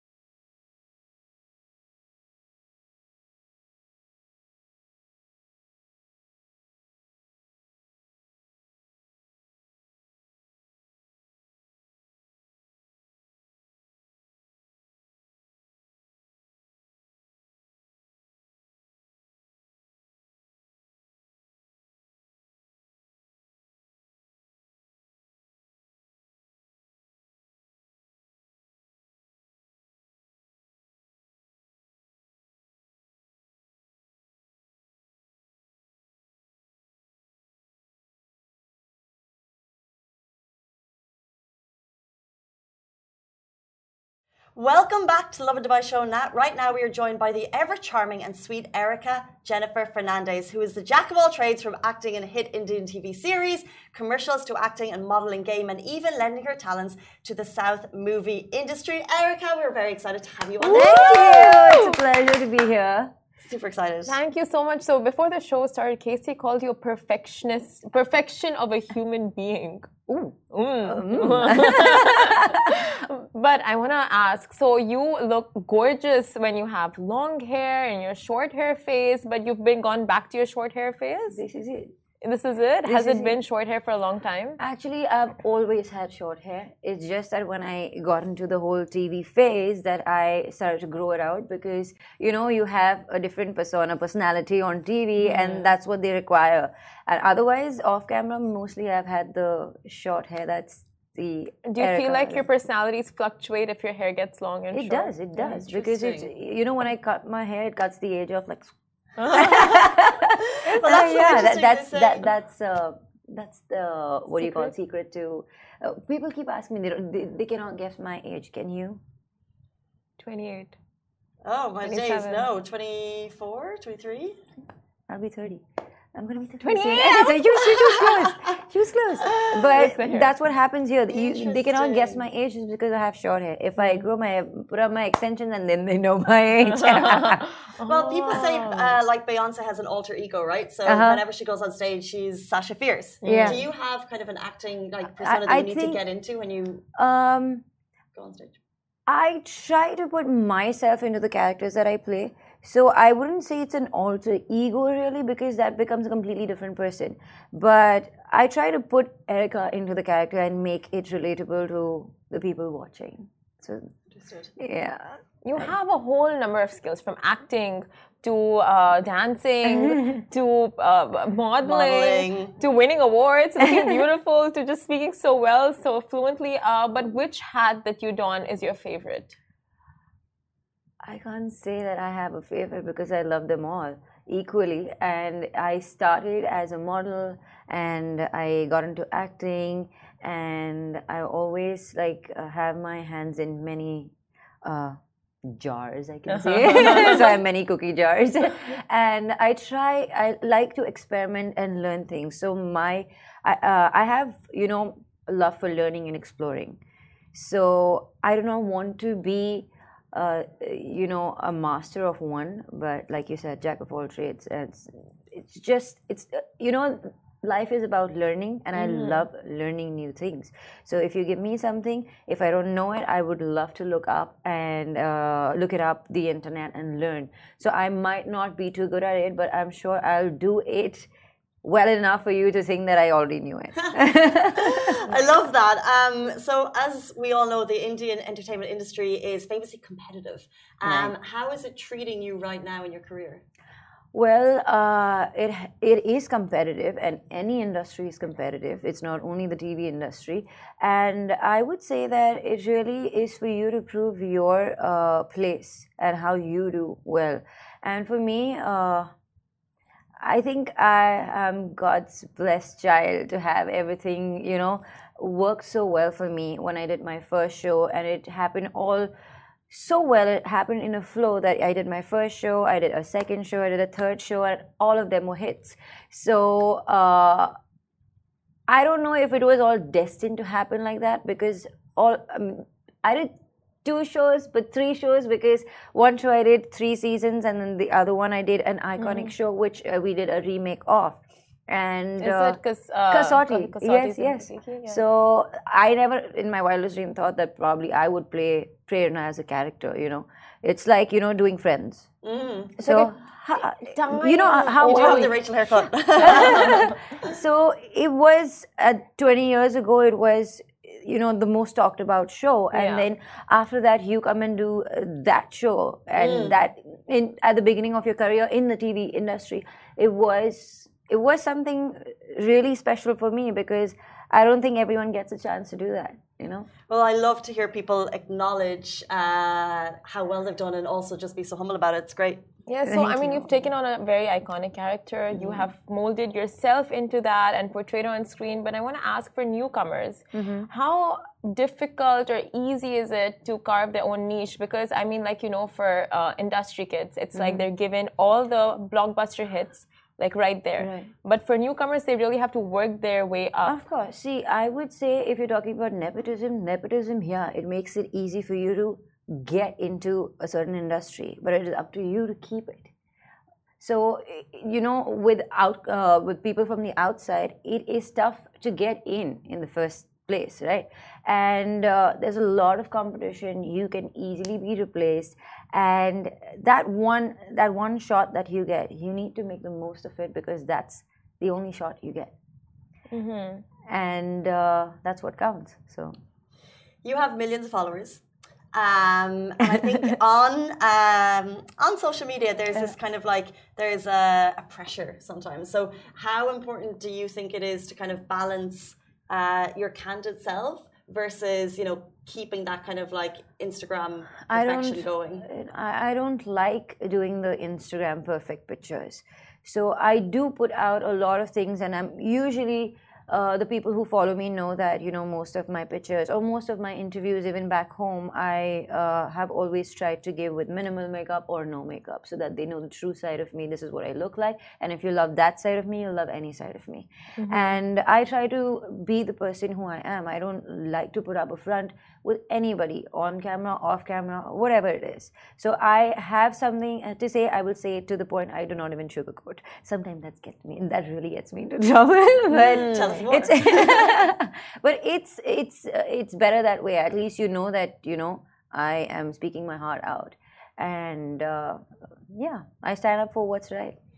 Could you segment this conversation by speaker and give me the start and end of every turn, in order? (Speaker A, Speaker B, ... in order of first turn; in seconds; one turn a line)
Speaker A: 44.5-61.4
Speaker B: 60.6-63.1
Speaker C: 60.7-62.0
Speaker A: 63.4-64.2
Speaker C: 64.1-69.9
Speaker B: 70.1-72.9
Speaker C: 70.5-81.4
Speaker B: 81.3-81.9
Speaker C: 82.2-84.6
Speaker B: 82.8-83.4
Speaker B: 84.6-102.4
Speaker C: 95.2-95.7
Speaker C: 101.7-105.6
Speaker B: 104.7-108.7
Speaker A: 105.5-106.3
Speaker C: 109.2-109.8
Speaker B: 109.2-119.0
Speaker A: 110.4-112.3
Speaker C: 114.4-114.7
Speaker C: 120.2-120.8
Speaker A: 121.4-124.4
Speaker C: 121.8-122.5
Speaker B: 125.1-137.4
Speaker C: 126.6-128.1
Speaker A: 129.3-129.9
Speaker C: 129.5-130.3
Speaker A: 131.1-132.2
Speaker C: 133.8-134.0
Speaker C: 136.7-139.0
Speaker A: 137.8-146.8
Speaker B: 140.8-141.2
Speaker C: 143.2-143.6
Speaker B: 143.2-143.6
Speaker B: 145.2-146.0
Speaker B: 146.9-147.6
Speaker A: 148.1-148.6
Speaker B: 149.1-163.9
Speaker A: 164.1-164.5
Speaker B: 164.6-165.7
Speaker C: 165.4-179.4
Speaker B: 169.6-170.2
Speaker A: 171.6-172.5
Speaker B: 181.0-206.8
Speaker C: 196.3-197.3
Speaker B: 207.3-231.1
Speaker C: 218.8-219.2
Speaker B: 231.6-235.0
Speaker A: 234.6-243.4
Speaker B: 240.8-241.1
Speaker B: 244.1-259.1
Speaker B: 260.2-269.1
Speaker B: 269.7-277.5
Speaker B: 278.7-283.3
Speaker B: 283.8-302.1
Speaker C: 289.0-289.3
Speaker C: 292.2-295.0
Speaker A: 302.2-302.8
Speaker B: 302.8-305.4
Speaker C: 302.8-305.4
Speaker A: 304.8-307.0
Speaker B: 306.2-326.7
Speaker C: 306.4-306.7
Speaker C: 312.7-313.0
Speaker A: 316.2-316.6
Speaker A: 326.9-332.4
Speaker C: 332.7-353.8
Speaker B: 332.8-333.5
Speaker B: 335.3-335.7
Speaker B: 340.3-340.7
Speaker B: 347.3-347.7
Speaker B: 350.8-351.1
Speaker B: 353.6-362.9
Speaker B: 363.8-382.3
Speaker C: 383.1-383.6
Speaker B: 383.9-386.1
Speaker A: 387.0-405.4
Speaker B: 404.5-454.0
Speaker C: 427.4-427.8
Speaker C: 442.6-443.1
Speaker A: 442.6-444.1